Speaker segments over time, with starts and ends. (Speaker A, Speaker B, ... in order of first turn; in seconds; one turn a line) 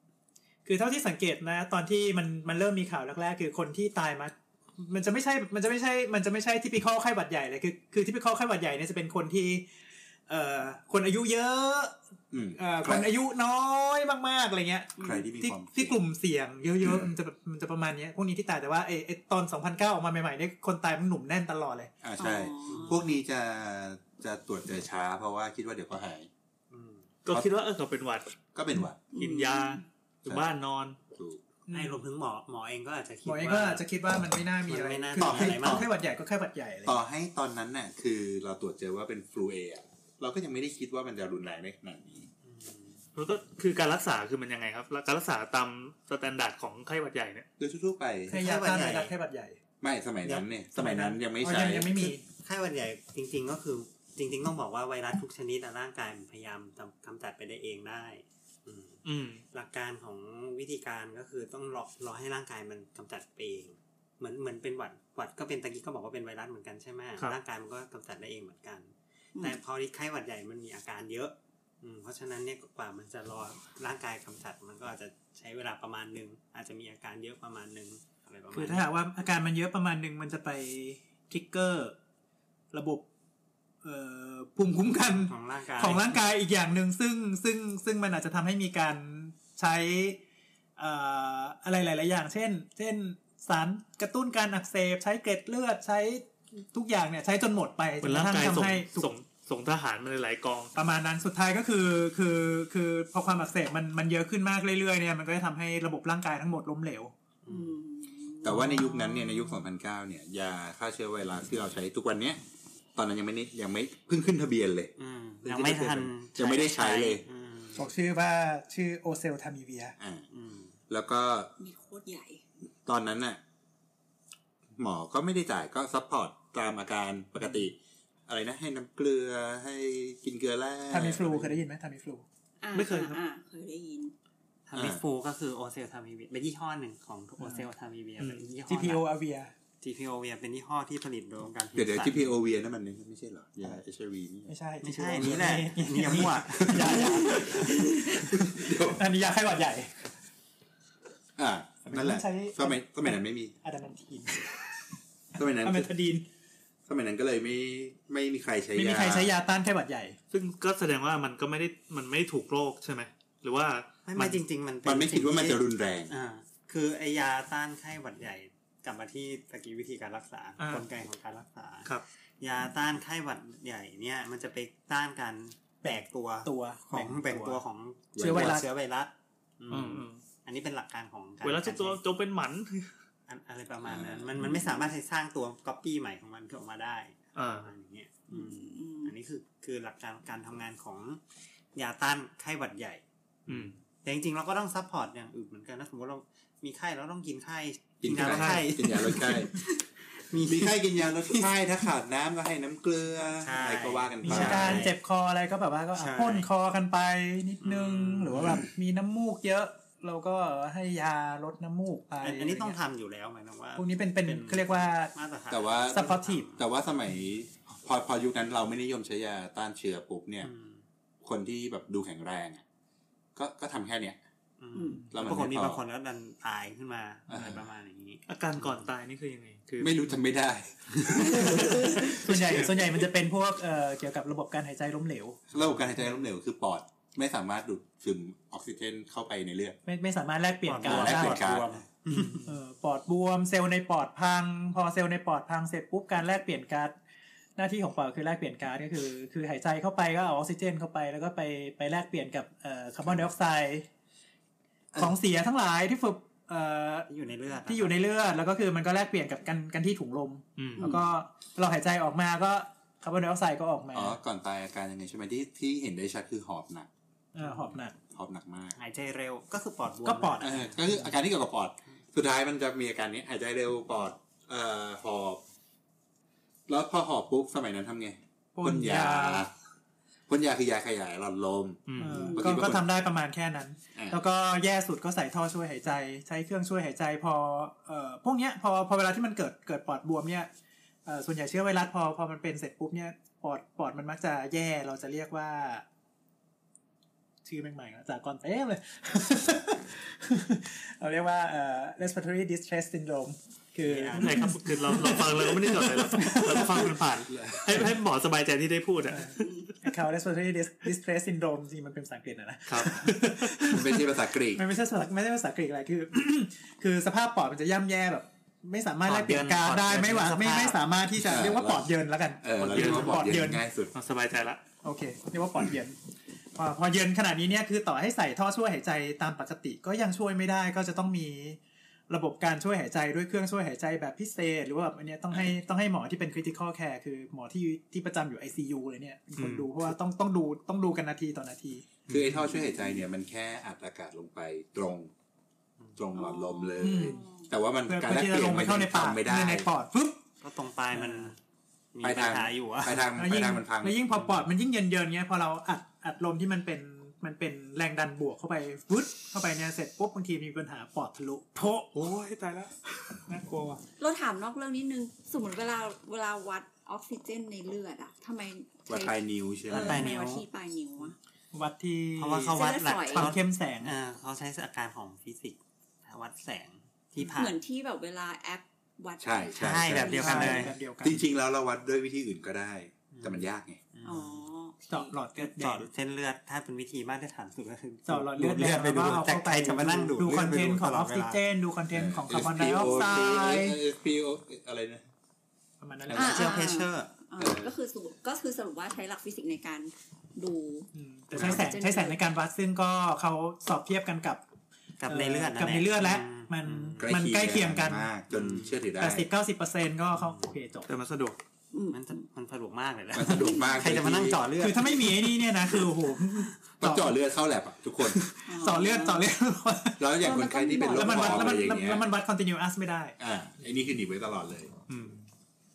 Speaker A: 0.6-9.7
Speaker A: 10.3-11.9
Speaker B: 12.3-13.1
Speaker A: 12.6-21.9
Speaker B: 15.0-16.0
Speaker B: 16.8-17.1
Speaker B: 22.0-26.3
Speaker C: 22.2-23.0
Speaker D: 22.7-23.0
Speaker D: 26.7-27.1
Speaker E: 27.2-28.3
Speaker B: 28.5-29.0
Speaker C: 29.1-29.8
Speaker E: 29.2-31.0
Speaker B: 31.1-31.4
Speaker A: 31.7-32.0
Speaker D: 31.7-33.8
Speaker A: 33.2-37.0
Speaker D: 34.7-35.9
Speaker B: 35.1-35.9
Speaker B: 36.9-42.3
Speaker D: 42.4-43.0
Speaker E: 43.1-47.5
Speaker B: 47.6-48.4
Speaker A: 48.3-49.6
Speaker D: 48.3-49.1
Speaker B: 49.8-52.1
Speaker A: 50.7-52.2
Speaker D: 52.3-59.0
Speaker E: 59.0-59.4
Speaker D: 59.5-78.9
Speaker C: 69.3-69.6
Speaker A: 78.5-81.9
Speaker A: 82.7-83.0
Speaker A: 83.8-90.2
Speaker D: 85.2-86.2
Speaker A: 90.8-99.1
Speaker E: 98.0-100.7
Speaker A: 100.7-107.1
Speaker D: 107.4-107.8
Speaker C: 107.5-109.6
Speaker B: 108.4-112.4
Speaker B: 112.9-114.9
Speaker D: 115.0-117.9
Speaker B: 115.4-117.2
Speaker A: 117.7-120.0
Speaker B: 120.0-120.2
Speaker D: 120.3-120.7
Speaker B: 120.9-121.5
Speaker C: 121.6-122.4
Speaker B: 122.8-123.4
Speaker B: 124.8-127.7
Speaker B: 128.3-131.6
Speaker A: 130.9-132.2
Speaker C: 132.6-134.1
Speaker E: 132.7-133.2
Speaker D: 134.7-139.1
Speaker B: 134.7-135.0
Speaker A: 137.4-137.7
Speaker E: 138.2-138.5
Speaker A: 138.7-139.5
Speaker D: 139.8-142.3
Speaker B: 141.7-144.5
Speaker A: 144.5-150.0
Speaker D: 144.8-147.7
Speaker B: 146.6-147.7
Speaker B: 148.2-149.1
Speaker B: 151.4-153.5
Speaker A: 151.8-154.6
Speaker B: 155.3-155.9
Speaker A: 155.6-156.2
Speaker B: 156.9-159.3
Speaker A: 158.8-160.2
Speaker E: 160.3-164.0
Speaker D: 164.1-182.0
Speaker B: 164.2-166.1
Speaker E: 170.6-170.8
Speaker A: 175.8-177.6
Speaker B: 178.2-178.6
Speaker A: 178.2-178.7
Speaker E: 179.7-180.2
Speaker E: 181.4-182.9
Speaker D: 183.3-191.2
Speaker B: 183.8-184.8
Speaker E: 187.3-187.7
Speaker C: 188.3-189.1
Speaker D: 191.7-201.5
Speaker E: 193.5-193.8
Speaker B: 198.0-199.5
Speaker E: 198.1-198.7
Speaker B: 200.4-204.8
Speaker D: 203.4-204.9
Speaker A: 204.2-212.8
Speaker D: 205.9-206.5
Speaker D: 207.6-208.6
Speaker D: 212.2-216.6
Speaker A: 213.8-215.1
Speaker B: 215.5-220.5
Speaker A: 215.9-216.5
Speaker D: 220.4-220.8
Speaker B: 221.2-222.6
Speaker B: 223.3-224.2
Speaker D: 224.6-228.9
Speaker C: 224.7-225.1
Speaker B: 225.1-225.8
Speaker B: 227.3-227.6
Speaker E: 228.3-230.0
Speaker B: 229.8-232.6
Speaker A: 231.2-235.4
Speaker B: 235.5-239.8
Speaker D: 235.6-236.0
Speaker A: 239.8-241.5
Speaker D: 240.7-242.4
Speaker B: 240.8-241.8
Speaker E: 242.1-242.4
Speaker A: 242.4-246.9
Speaker A: 247.6-253.9
Speaker A: 254.9-257.1
Speaker D: 257.1-258.0
Speaker A: 257.6-264.2
Speaker E: 260.6-260.9
Speaker B: 263.9-266.9
Speaker A: 267.3-267.9
Speaker D: 267.4-267.8
Speaker B: 268.1-268.8
Speaker D: 268.8-271.0
Speaker A: 270.0-270.6
Speaker B: 270.4-275.4
Speaker B: 276.7-279.5
Speaker A: 278.5-279.4
Speaker B: 280.3-282.8
Speaker E: 281.9-282.3
Speaker A: 282.0-290.5
Speaker C: 282.2-282.4
Speaker A: 291.1-295.8
Speaker A: 297.4-307.0
Speaker D: 303.9-304.5
Speaker E: 304.2-309.8
Speaker B: 307.3-307.9
Speaker A: 309.1-323.6
Speaker E: 312.7-313.7
Speaker B: 313.7-314.6
Speaker D: 319.1-320.8
Speaker B: 321.2-323.9
Speaker E: 322.7-323.2
Speaker E: 323.9-324.6
Speaker A: 324.8-326.0
Speaker A: 326.5-341.9
Speaker E: 339.4-339.7
Speaker B: 342.1-345.1
Speaker B: 345.9-349.7
Speaker C: 346.1-347.5
Speaker A: 346.8-347.2
Speaker A: 347.9-350.2
Speaker D: 350.4-351.4
Speaker A: 350.9-351.3
Speaker D: 351.9-353.1
Speaker B: 352.0-354.0
Speaker A: 353.1-362.0
Speaker D: 354.2-354.4
Speaker E: 361.9-363.8
Speaker C: 364.0-371.1
Speaker B: 368.9-370.1
Speaker D: 369.7-370.4
Speaker A: 371.5-373.9
Speaker D: 372.2-377.6
Speaker C: 372.5-373.3
Speaker C: 377.4-380.7
Speaker B: 379.2-383.8
Speaker D: 379.6-380.7
Speaker A: 380.1-381.2
Speaker D: 383.1-384.4
Speaker C: 384.0-385.1
Speaker A: 384.9-385.9
Speaker D: 385.4-391.4
Speaker A: 388.1-393.8
Speaker B: 391.9-395.1
Speaker A: 395.8-396.6
Speaker B: 396.1-396.4
Speaker C: 396.1-402.2
Speaker D: 396.1-397.1
Speaker B: 397.4-397.7
Speaker A: 400.9-404.4
Speaker B: 401.4-401.6
Speaker D: 405.0-407.1
Speaker A: 405.1-408.1
Speaker B: 407.0-409.3
Speaker D: 408.3-408.8
Speaker A: 409.0-410.9
Speaker D: 410.2-410.5
Speaker E: 410.9-411.4
Speaker C: 411.7-412.2
Speaker D: 411.9-415.8
Speaker B: 413.1-414.4
Speaker A: 414.6-417.2
Speaker B: 416.8-418.2
Speaker A: 418.0-420.0
Speaker C: 418.5-419.2
Speaker B: 420.0-422.1
Speaker C: 420.2-421.6
Speaker A: 420.9-423.1
Speaker B: 423.2-424.7
Speaker E: 424.9-425.3